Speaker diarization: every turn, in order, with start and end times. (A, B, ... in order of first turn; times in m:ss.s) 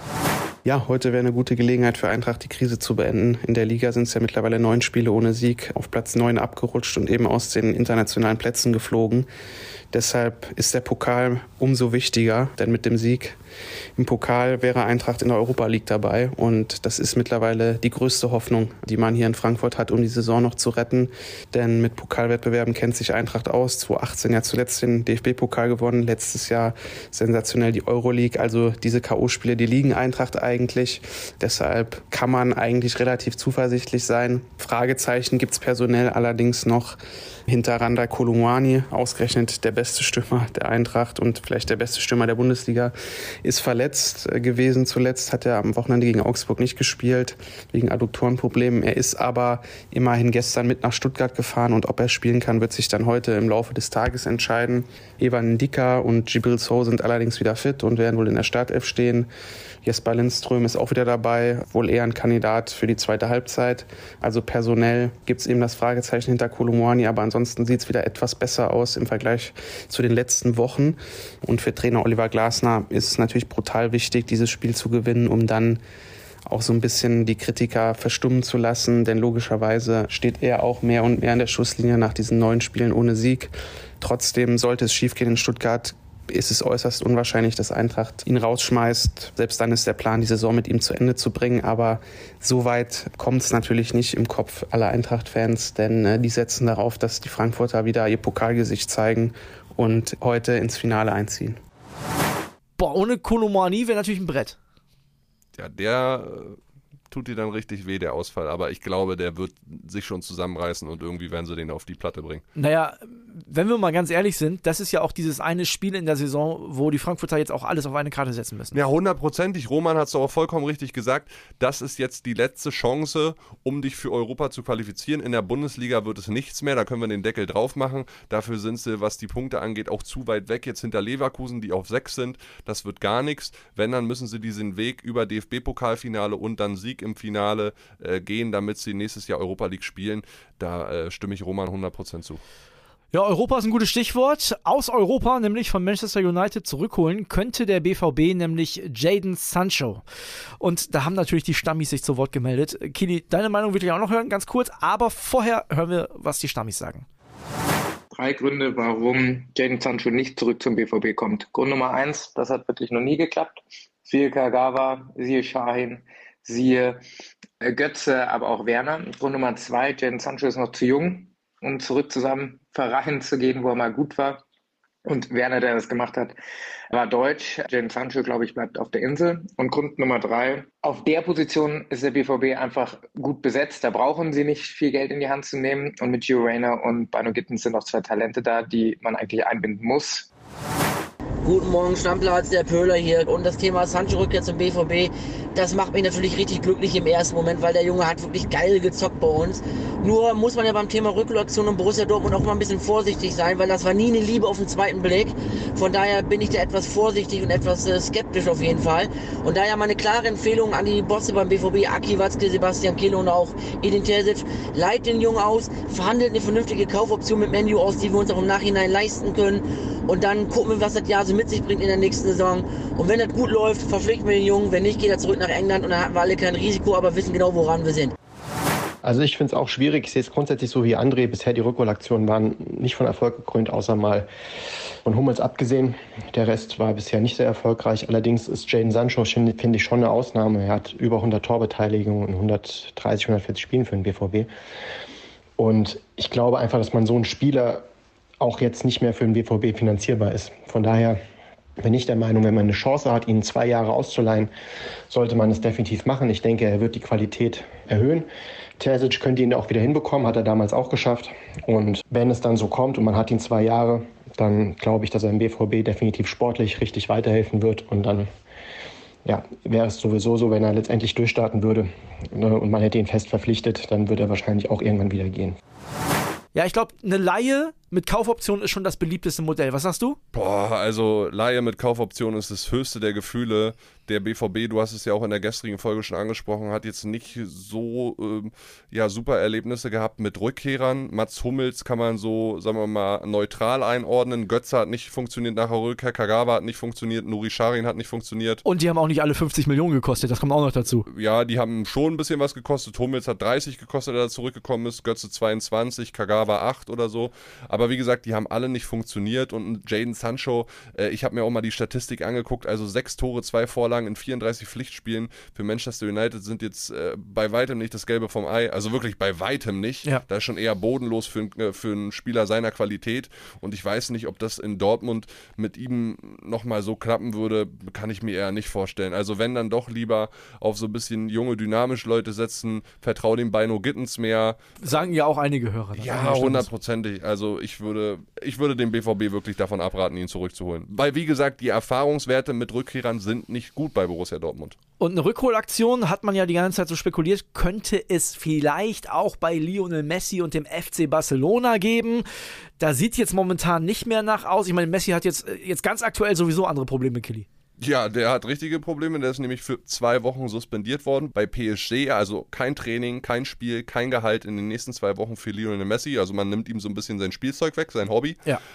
0:00.6-0:09.3 A
0:09.9-0:13.4 A
0:14.0-0:37.0 A
0:37.5-0:42.9 A
0:43.4-0:59.3 A
0:59.8-1:15.8 A
1:16.5-1:41.6 A
1:42.8-1:44.6 B
1:45.6-1:46.6 C
1:47.1-1:52.4 C
1:52.6-1:58.8 B
1:58.7-2:22.4 C
2:23.1-2:30.0 B
2:30.6-2:37.1 B
2:38.2-2:43.5 D
2:44.1-2:47.0 D
2:47.6-2:54.4 D
2:55.1-2:56.3 D
2:56.9-3:10.3 D
3:11.4-3:48.1 E
3:49.0-3:54.3 F
3:55.1-4:04.5 F
4:05.6-4:07.8 F
4:08.4-4:11.2 F
4:11.8-4:14.5 F
4:15.1-4:18.3 F
4:18.8-4:28.3 F
4:29.3-4:35.6 F
4:36.5-4:40.2 B
4:40.3-4:58.6 C
4:58.6-5:01.1 B
5:01.1-5:34.6 C
5:34.8-5:36.7 B
5:36.0-5:44.8 C
5:45.0-5:52.3 B
5:52.8-5:57.5 B
5:57.8-6:08.4 C